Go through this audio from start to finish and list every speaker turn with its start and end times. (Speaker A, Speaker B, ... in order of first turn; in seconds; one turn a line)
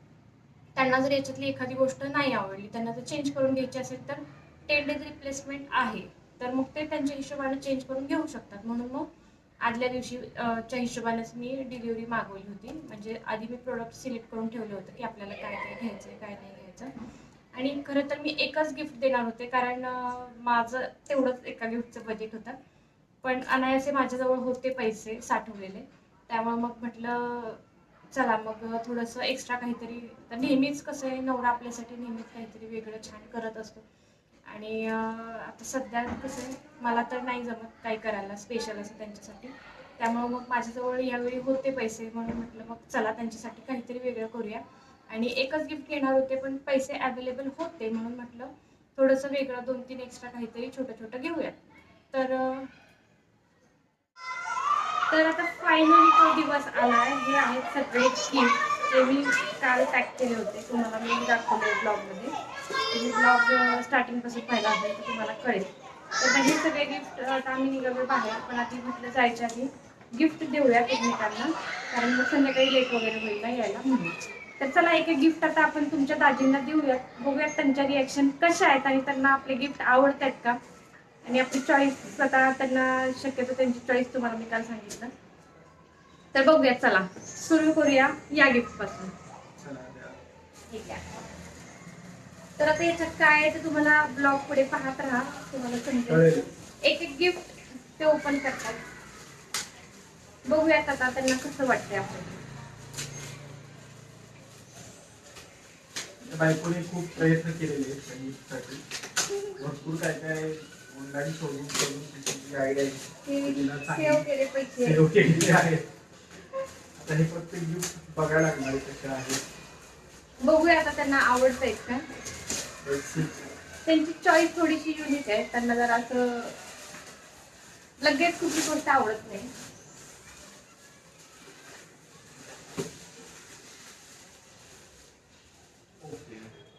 Speaker A: 0.8-9.1
Speaker A: 9.6-16.9
Speaker A: 17.5-22.6
Speaker A: 23.2-27.6
Speaker A: 28.1-33.8
Speaker A: 34.5-51.5
Speaker A: 52.1-52.7
Speaker A: 55.1-62.3
Speaker A: 62.9-80.6
Speaker A: 81.2-85.1
Speaker A: 86.3-89.1
Speaker B: 89.5-90.2
Speaker A: 90.7-91.0
Speaker A: 92.6-96.3
Speaker B: 96.1-96.5
Speaker A: 96.8-98.8
Speaker A: 100.4-102.4
Speaker B: 106.2-108.8
Speaker B: 109.6-114.3
Speaker A: 113.2-115.0
Speaker B: 114.8-115.9
Speaker B: 116.9-119.4
Speaker A: 120.4-122.0
Speaker B: 122.8-123.5
Speaker A: 123.8-126.5
Speaker A: 128.0-129.5
Speaker B: 136.0-136.5